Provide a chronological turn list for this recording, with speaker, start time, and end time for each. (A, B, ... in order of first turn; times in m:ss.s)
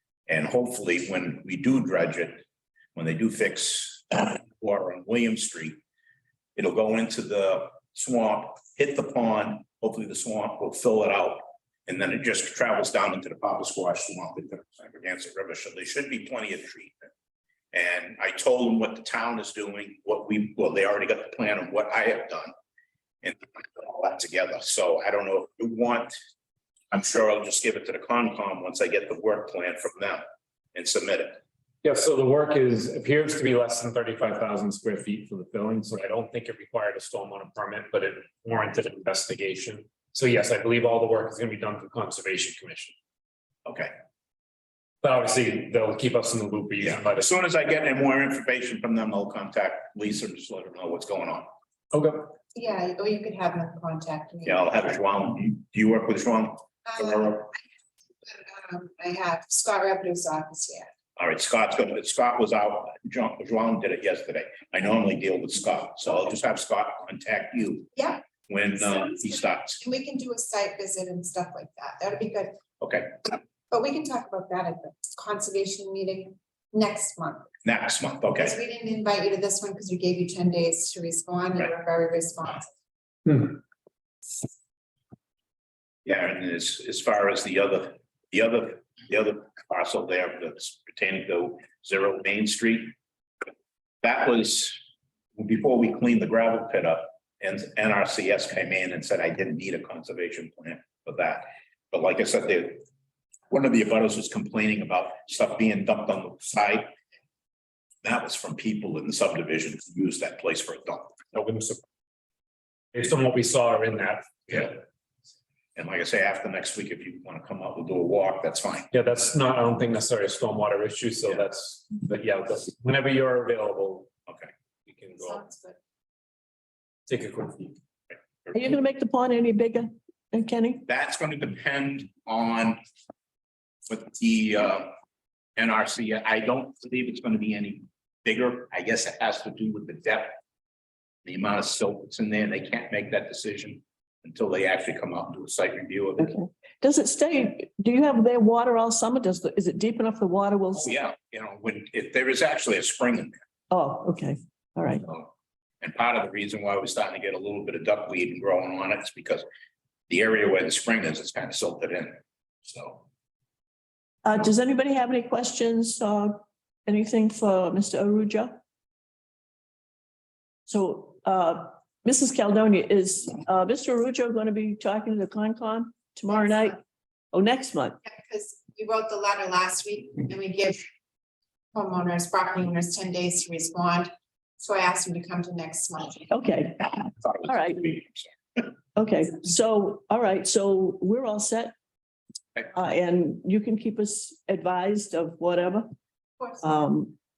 0:00.3-0:02.4 A
0:03.0-0:05.8 A
0:06.6-0:17.1 A
0:17.7-0:22.5 A
0:23.2-0:26.2 A
0:26.9-0:30.2 A
0:30.7-0:31.4 A
0:31.8-0:42.9 B
0:43.6-0:43.9 A
0:45.0-0:47.3 B
0:46.8-0:51.5 A
0:51.9-0:52.3 B
0:52.5-0:54.6 C
0:54.4-0:57.5 A
0:56.8-0:57.6 C
0:58.2-1:00.9 C
1:01.2-1:07.9 A
1:07.9-1:12.6 C
1:08.5-1:09.8 A
1:12.8-1:13.1 A
1:13.7-1:17.5 C
1:17.6-1:18.6 A
1:18.4-1:22.7 C
1:23.3-1:23.6 B
1:26.0-1:32.9 A
1:34.0-1:34.8 A
1:35.4-1:42.8 A
1:43.5-1:46.9 A
1:48.0-1:51.3 A
1:51.3-1:51.8 B
1:52.9-1:54.8 B
1:55.8-1:58.9 A
1:58.9-2:04.1 B
2:04.8-2:05.4 B
2:05.2-2:05.8 C
2:07.1-2:07.8 B
2:08.5-2:10.8 D
2:10.8-2:12.8 A
2:13.9-2:14.9 A
2:15.6-2:20.4 A
2:21.2-2:26.3 A
2:26.2-2:30.9 D
2:30.8-2:33.4 A
2:33.7-2:35.0 D
2:35.8-2:39.4 A
2:40.1-2:43.0 A
2:44.2-2:48.6 D
2:50.7-2:56.8 D
2:56.3-2:56.7 C
2:57.3-2:58.0 D
2:58.0-3:00.8 C
3:01.7-3:06.3 C
3:06.3-3:07.9 D
3:07.2-3:08.3 A
3:09.0-3:11.7 D
3:12.7-3:15.9 D
3:16.6-3:17.2 D